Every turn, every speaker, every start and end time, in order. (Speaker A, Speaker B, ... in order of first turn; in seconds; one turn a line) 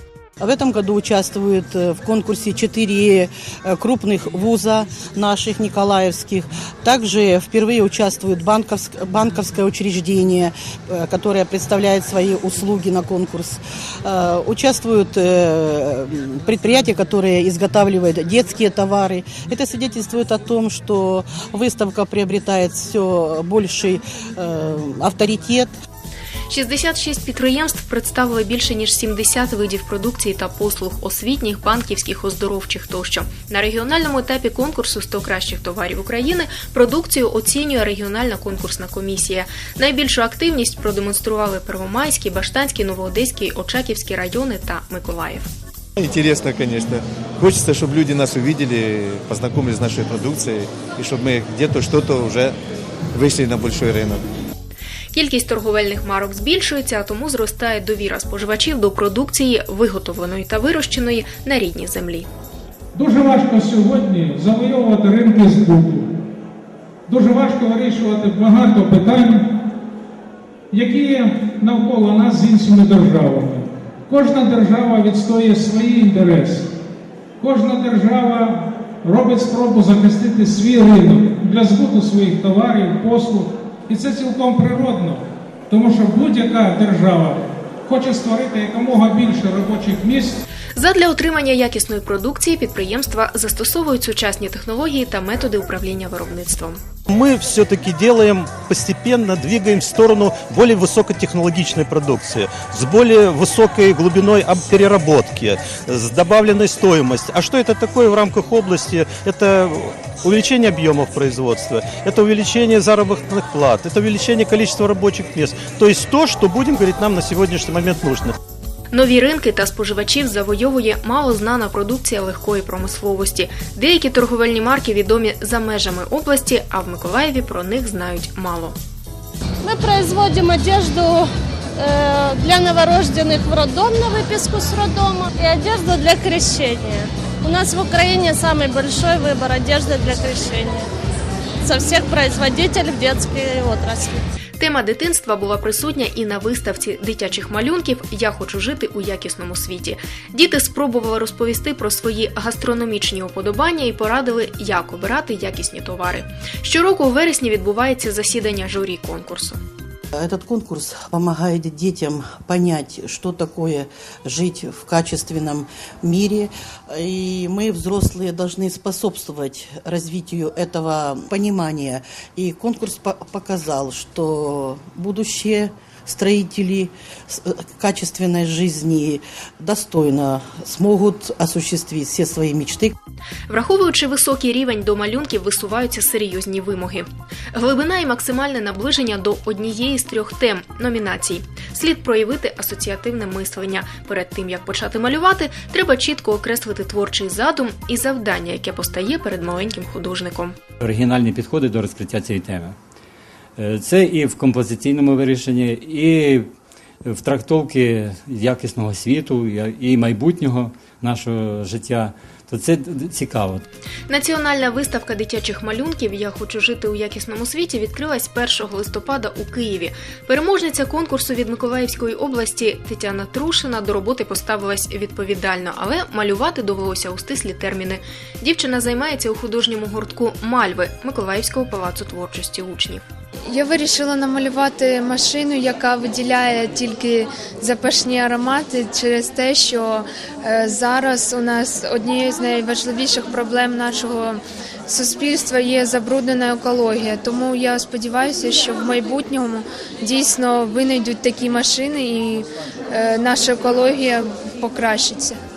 Speaker A: 0.4-25.7
Speaker B: 26.5-45.5
Speaker C: 46.0-52.5
Speaker C: 53.1-54.2
Speaker B: 55.1-62.3
Speaker D: 62.9-66.1
Speaker D: 67.1-69.5
Speaker D: 70.7-76.7
Speaker D: 77.4-90.4
Speaker B: 90.8-96.8
Speaker E: 97.1-118.3
Speaker B: 118.9-128.8
Speaker F: 129.6-140.9
Speaker F: 141.6-144.2
Speaker B: 144.6-159.6
Speaker A: 160.1-182.9
Speaker B: 183.5-200.5
Speaker G: 200.8-202.8
Speaker G: 203.6-206.4
Speaker G: 207.0-213.6
Speaker B: 214.1-233.0
Speaker H: 233.4-255.4